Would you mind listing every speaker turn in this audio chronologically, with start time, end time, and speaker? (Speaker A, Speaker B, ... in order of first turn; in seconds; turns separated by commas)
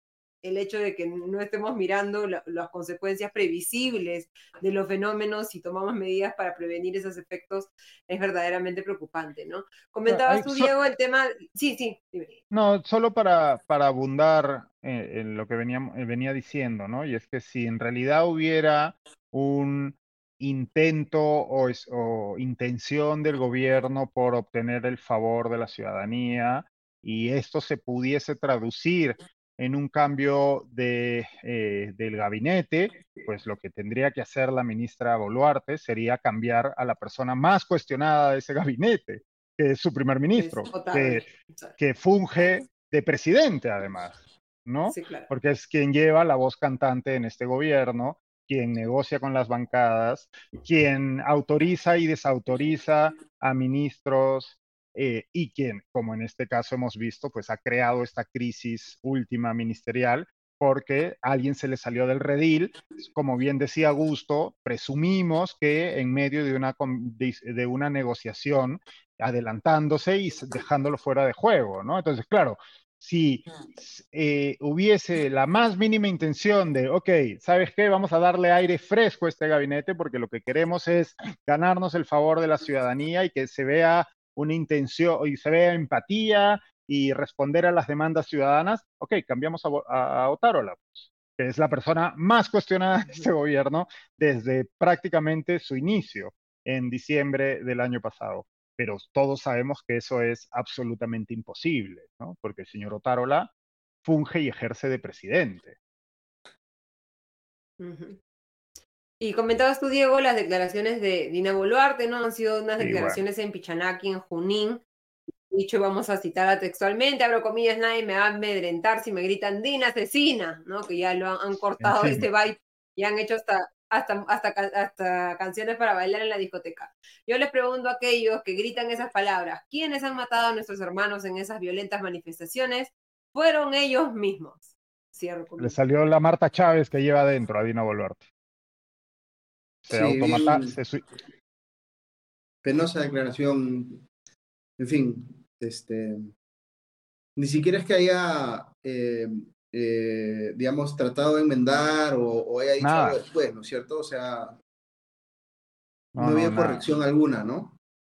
Speaker A: 0.4-12.3, Speaker B: 10.1-10.7, Speaker B: 12.5-103.5, Speaker A: 40.3-41.7, Speaker A: 44.9-45.3, Speaker B: 104.0-105.8, Speaker A: 107.8-108.2, Speaker A: 109.2-114.8, Speaker B: 112.8-113.2, Speaker A: 115.5-135.8, Speaker B: 121.8-122.3, Speaker B: 135.6-138.2, Speaker B: 139.8-141.0, Speaker C: 139.9-140.8, Speaker C: 142.6-144.0, Speaker C: 144.8-146.3, Speaker C: 147.3-154.6, Speaker B: 152.8-153.2, Speaker B: 156.1-156.8, Speaker C: 156.2-157.8